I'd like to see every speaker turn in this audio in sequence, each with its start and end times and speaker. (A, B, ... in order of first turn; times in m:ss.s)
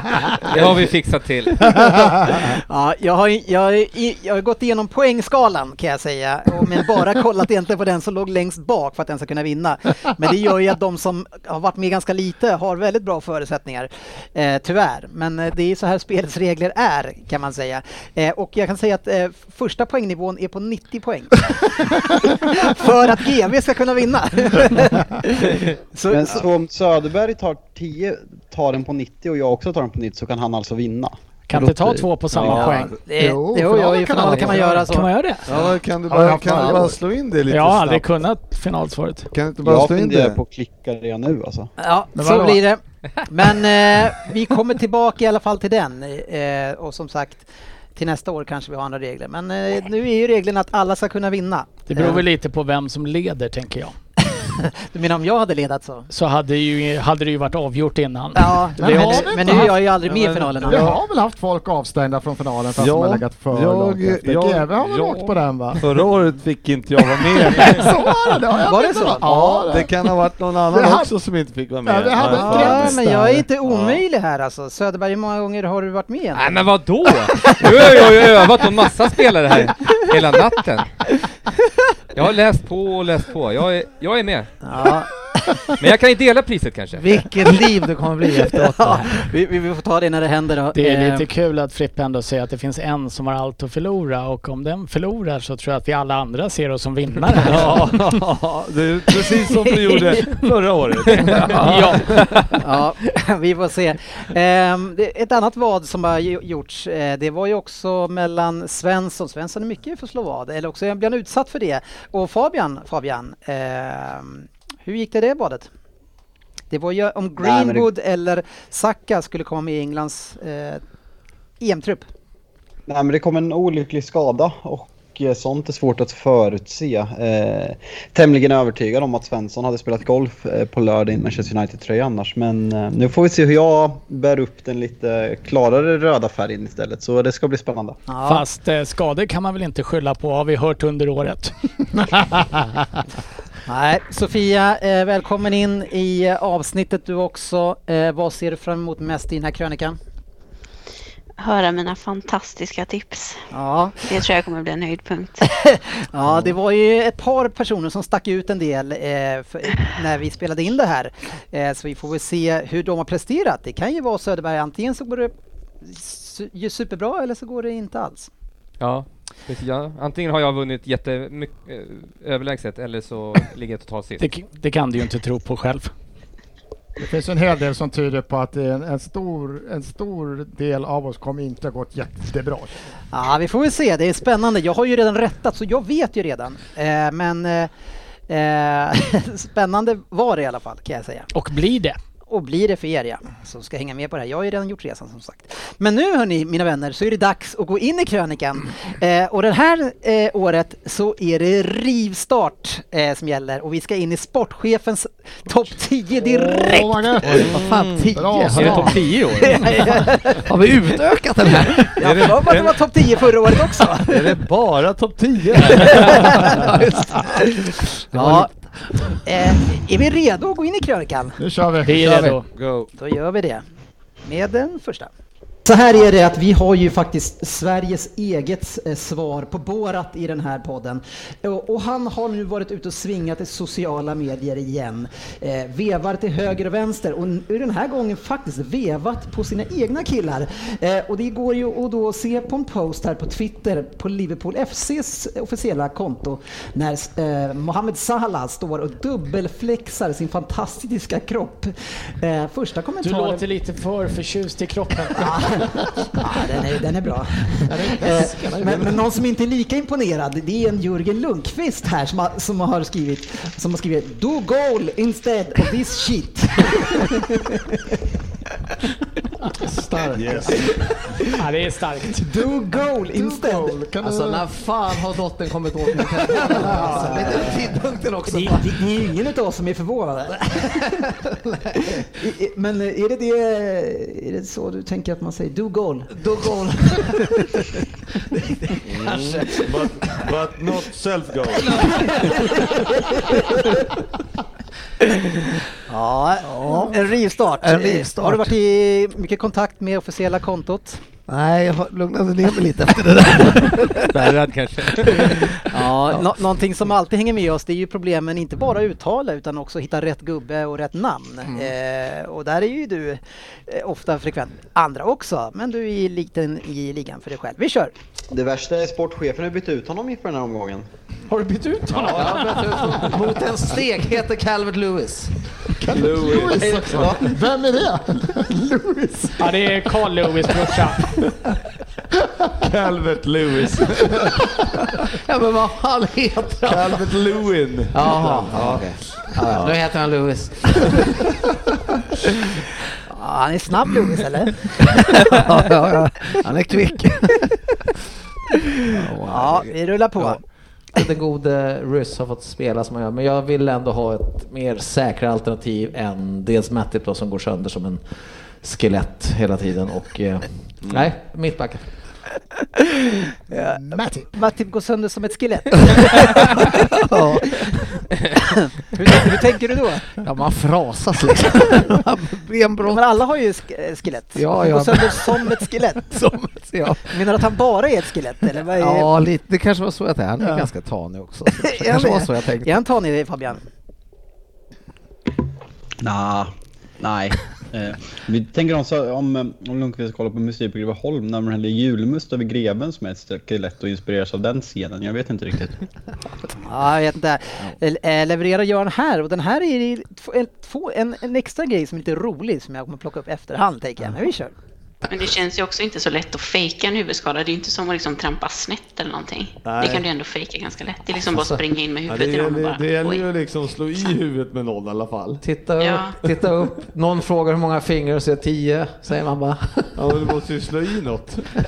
0:00.3-0:02.3 A
0:01.8-0:26.4 B
0:26.1-0:31.2 C
0:31.5-0:33.0 D
0:32.4-0:32.8 E
0:32.5-0:35.7 B
0:33.2-0:34.9 F
0:34.4-0:35.6 D
0:35.5-0:38.1 E
0:36.1-0:37.0 F
0:37.5-0:39.3 D
0:39.3-0:40.4 E
0:39.6-0:41.7 C
0:41.8-0:52.2 B
0:42.2-0:42.6 F
0:51.9-0:53.9 D
0:54.4-0:56.1 B
0:56.1-0:59.8 D
0:58.3-1:01.0 B
0:58.8-0:59.8 F
1:00.0-1:01.0 E
1:00.6-1:05.9 F
1:02.8-1:07.9 E
1:07.5-1:10.0 F
1:08.7-1:09.3 B
1:09.2-1:13.0 E
1:10.7-1:11.1 F
1:11.8-1:13.4 F
1:12.3-1:16.6 B
1:13.7-1:14.0 E
1:16.4-1:21.0 A
1:17.4-1:18.0 B
1:22.1-1:24.5 A
1:24.6-1:25.1 B
1:25.7-1:27.0 A
1:27.0-1:29.3 G
1:28.5-1:31.2 B
1:30.7-1:38.1 D
1:37.4-1:42.6 E
1:41.1-1:42.6 D
1:42.6-1:55.7 B
1:56.7-2:00.8 B
1:57.4-1:57.9 C
2:01.6-2:02.0 B
2:02.9-2:18.0 C
2:18.1-2:18.4 B
2:18.2-2:22.7 D
2:23.6-2:30.0 B
2:31.4-2:33.4 H
2:33.5-2:34.1 B
2:34.0-2:35.4 H
2:35.4-2:45.3 B
2:45.8-2:48.3 B
2:48.8-2:54.3 A
2:54.2-2:55.9 D
2:57.0-3:02.7 F
3:03.1-3:07.7 B
3:08.3-3:11.3 B
3:11.3-3:12.0 D
3:12.3-3:27.2 B
3:26.2-3:29.0 F
3:27.3-3:28.1 E
3:27.4-3:29.0 G
3:28.5-3:29.7 A
3:29.4-3:30.4 B
3:30.4-3:31.9 G
3:31.9-3:34.4 B
3:32.0-3:32.8 E
3:34.0-3:36.6 E
3:35.8-3:36.6 B
3:36.2-3:37.5 G
3:37.3-3:38.5 B
3:38.1-3:38.5 G
3:39.2-3:41.4 B
3:41.4-3:42.2 F
3:41.8-3:42.4 D
3:42.1-3:42.3 G
3:42.5-3:42.9 E
3:43.0-3:43.6 B
3:44.2-3:45.1 B
3:45.6-4:13.4 B
4:13.0-4:15.7 D
4:15.2-4:27.8 B
4:17.6-4:19.0 F
4:29.7-4:30.6 F
4:30.1-4:30.8 E
4:31.4-4:32.3 D
4:32.2-4:33.8 B
4:33.1-4:34.5 F
4:34.0-4:38.9 G
4:36.3-4:37.4 F
4:38.3-4:41.1 B
4:40.6-4:42.0 G
4:41.8-4:46.2 B
4:46.1-4:47.4 G
4:46.9-4:47.7 B
4:48.7-4:49.3 G
4:48.8-4:52.3 E
4:51.8-4:53.5 B
4:55.9-5:01.0 B
4:56.4-4:57.0 G
4:57.6-4:58.6 G
5:01.3-5:04.1 G
5:04.1-5:05.6 A
5:05.1-5:05.3 G
5:05.7-5:17.9 B
5:18.3-5:20.8 C
5:21.3-5:22.8 D
5:21.9-5:22.5 E
5:22.1-5:25.3 G
5:25.7-5:29.8 F
5:25.9-5:27.2 E
5:29.4-5:31.1 D
5:32.6-5:34.4 E
5:35.0-5:37.1 G
5:36.6-5:39.8 E
5:37.9-5:41.2 G
5:43.0-5:45.4 B
5:45.1-5:47.5 G
5:48.9-5:50.4 G
5:49.3-5:50.4 B
5:50.9-5:58.0 G
5:58.6-6:01.8 G
6:00.8-6:01.1 E
6:03.5-6:07.8 B
6:03.7-6:04.3 F
6:07.0-6:07.7 G
6:08.4-6:10.1 B
6:10.2-6:13.0 G
6:12.8-6:16.2 B
6:14.3-6:17.2 G
6:17.1-6:19.1 B
6:18.7-6:22.8 G
6:21.6-6:23.6 B
6:26.0-6:35.8 C
6:36.6-6:44.5 B
6:45.0-6:53.2 H
6:49.6-6:50.1 E
6:51.3-6:51.6 G
6:52.1-6:55.4 E
6:55.4-7:00.0 G
6:55.8-6:56.2 H
6:59.9-7:01.5 E